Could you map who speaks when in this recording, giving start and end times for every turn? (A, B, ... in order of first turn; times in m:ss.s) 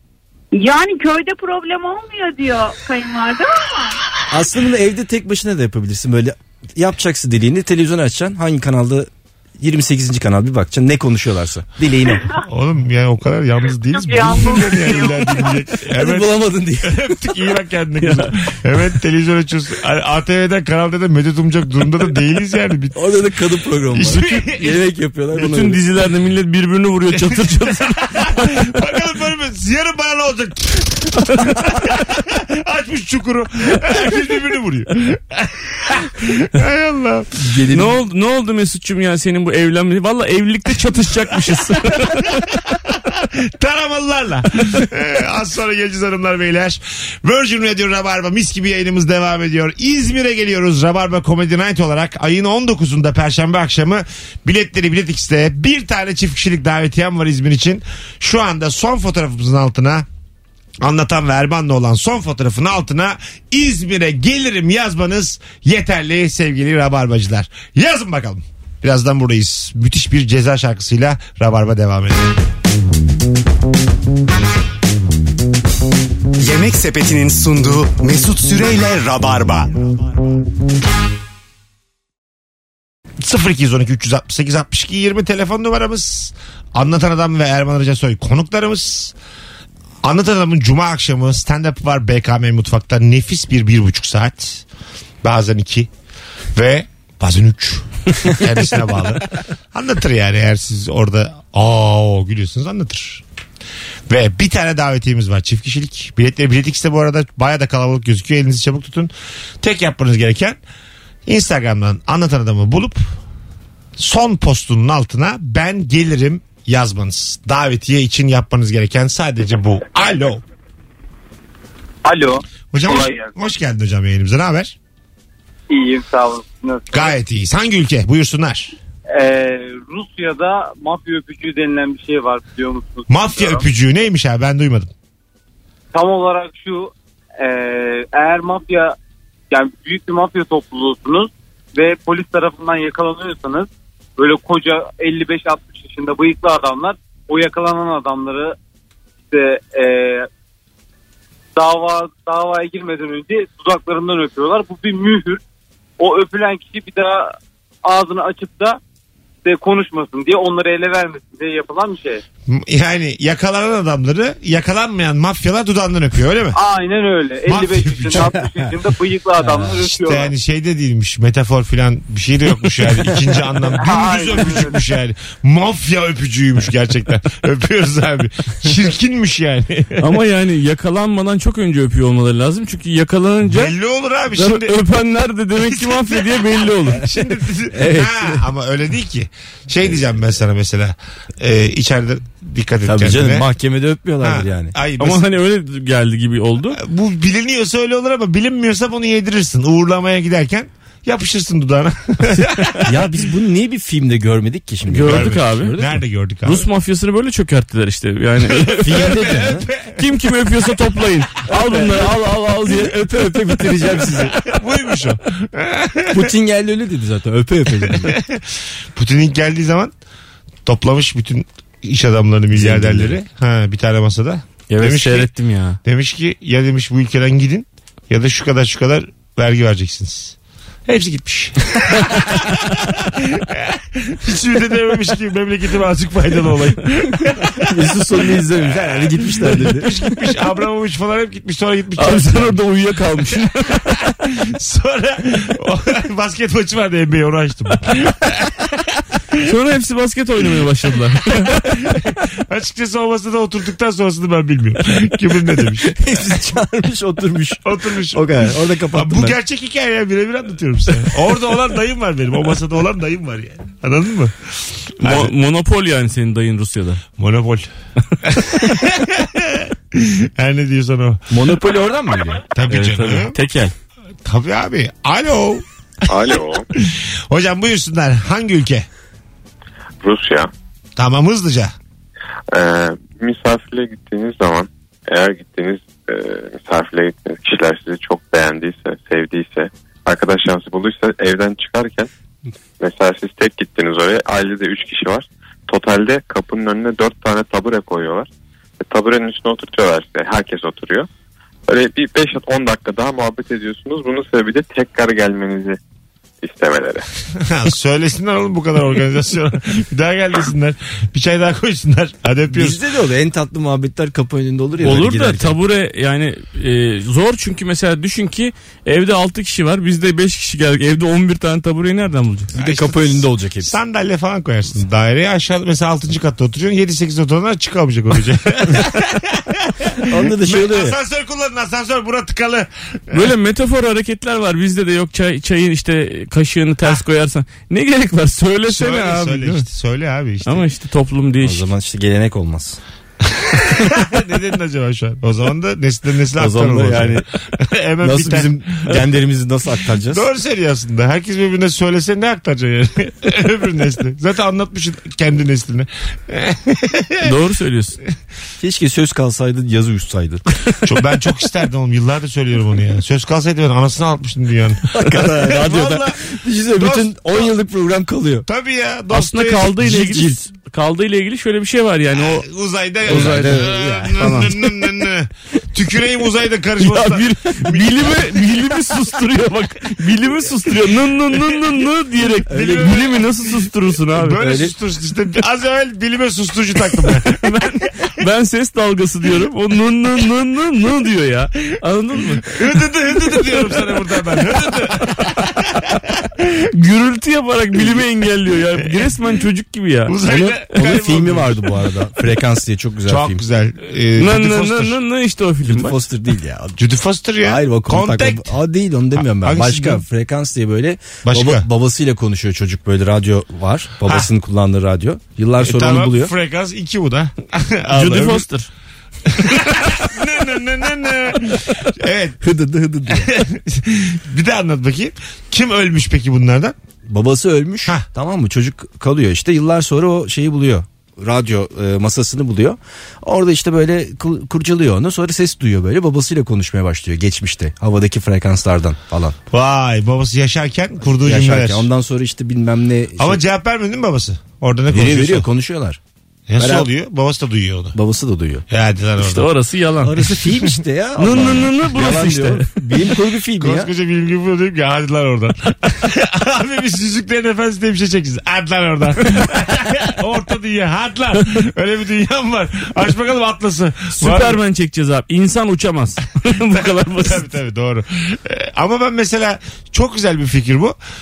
0:00.5-0:04.0 A
0:04.3-0:12.3 B
0:12.4-0:23.1 C
0:13.9-0:15.6 A
0:15.9-0:17.1 B
0:18.0-0:18.4 D
0:22.9-0:25.8 B
0:23.9-0:24.8 C
0:25.3-0:28.7 D
0:27.1-0:37.3 C
0:37.3-0:38.0 B
0:37.7-0:42.5 D
0:42.3-1:00.0 C
1:00.8-1:12.3 C
1:16.4-1:19.8 E
1:23.2-1:29.1 C
1:30.0-1:34.6 C
1:35.2-1:35.9 C
1:36.5-1:43.2 C
1:44.1-1:50.6 C
1:51.2-1:53.0 C
1:54.0-2:00.4 C
2:02.0-2:03.3 F
2:02.7-2:04.8 C
2:05.7-2:07.2 F
2:06.9-2:08.8 C
2:09.1-2:13.7 F
2:13.1-2:14.9 C
2:15.9-2:19.0 F
2:19.5-2:28.6 F
2:29.3-2:30.3 F
2:31.5-2:35.4 F
2:36.0-2:38.8 F
2:39.4-2:42.2 F
2:42.5-2:46.6 C
2:46.5-2:50.3 F
2:47.4-2:48.5 C
2:49.7-3:00.1 C
2:53.8-2:54.8 F
3:00.0-3:03.7 D
3:03.4-3:04.8 C
3:04.3-3:07.1 D
3:05.6-3:13.5 C
3:07.7-3:08.4 B
3:12.8-3:14.7 B
3:14.2-3:15.2 C
3:15.0-3:16.8 D
3:16.7-3:23.1 C
3:22.8-3:26.0 B
3:24.9-3:25.8 D
3:25.0-3:26.6 C
3:26.4-3:29.4 D
3:28.4-3:30.2 C
3:28.8-3:29.7 B
3:29.9-3:33.3 D
3:31.5-3:34.4 B
3:34.4-3:36.3 C
3:36.1-3:38.1 B
3:37.8-3:39.9 C
3:40.6-3:45.3 C
3:42.5-3:43.2 B
3:44.7-3:45.8 D
3:45.8-4:02.6 C
3:57.6-3:59.9 B
4:02.0-4:04.1 D
4:03.9-4:09.4 C
4:09.4-4:11.7 D
4:11.4-4:16.0 C
4:15.8-4:19.4 B
4:17.6-4:24.4 C
4:25.0-4:25.3 C
4:25.0-4:27.0 D
4:27.2-4:27.7 C
4:28.2-4:31.2 C
4:31.3-4:32.4 B
4:32.5-4:33.4 C
4:32.7-4:33.7 D
4:34.2-4:35.6 C
4:36.1-4:36.7 G
4:36.7-4:38.9 C
4:40.0-4:40.5 G
4:41.0-4:41.7 C
4:42.5-4:52.1 G
4:52.8-4:58.3 G
4:58.8-5:01.1 G
5:01.7-5:05.8 G
5:06.4-5:07.0 G
5:07.4-5:12.8 C
5:12.5-5:15.6 B
5:14.8-5:22.5 D
5:22.5-5:23.7 B
5:22.6-5:33.3 C
5:30.1-5:31.0 B
5:33.1-5:39.6 D
5:38.7-5:40.7 C
5:40.4-5:41.6 D
5:41.4-5:42.8 B
5:43.2-5:49.0 C
5:46.4-5:47.2 B
5:48.0-5:50.2 B
5:50.0-5:57.3 C
5:57.2-5:58.0 D
5:58.6-6:00.4 B
6:00.8-6:06.2 C
6:04.9-6:08.4 B
6:06.7-6:07.5 C
6:08.4-6:09.9 C
6:09.1-6:12.5 D
6:09.8-6:10.4 B
6:12.1-6:18.6 C
6:13.0-6:14.5 D
6:13.0-6:14.7 B
6:16.8-6:24.4 D
6:22.5-6:23.3 C
6:22.5-6:23.0 B
6:24.1-6:27.6 C
6:24.4-6:24.7 B
6:27.3-6:32.6 D
6:32.4-6:36.0 C
6:36.7-6:40.2 D
6:40.0-6:41.7 C
6:40.2-6:43.4 B
6:43.1-6:45.0 C
6:44.2-6:46.0 D
6:45.6-6:46.8 B
6:46.8-6:48.5 C
6:47.4-6:56.3 B
6:49.1-6:50.0 C
6:51.2-6:51.6 C
6:55.6-6:58.5 C
6:57.9-6:58.7 D
6:59.3-7:02.4 C
7:02.4-7:03.3 B
7:03.1-7:06.8 C
7:07.1-7:19.4 B
7:19.5-7:21.9 C
7:21.2-7:23.4 B
7:23.2-7:25.5 C
7:24.9-7:26.0 B
7:26.5-7:28.0 C
7:26.6-7:26.9 B
7:27.9-7:28.6 B
7:28.7-7:29.5 C
7:29.2-7:30.3 D
7:30.0-7:33.9 B
7:31.2-7:32.7 D
7:33.6-7:44.6 C
7:44.2-7:47.4 D
7:46.7-7:51.0 C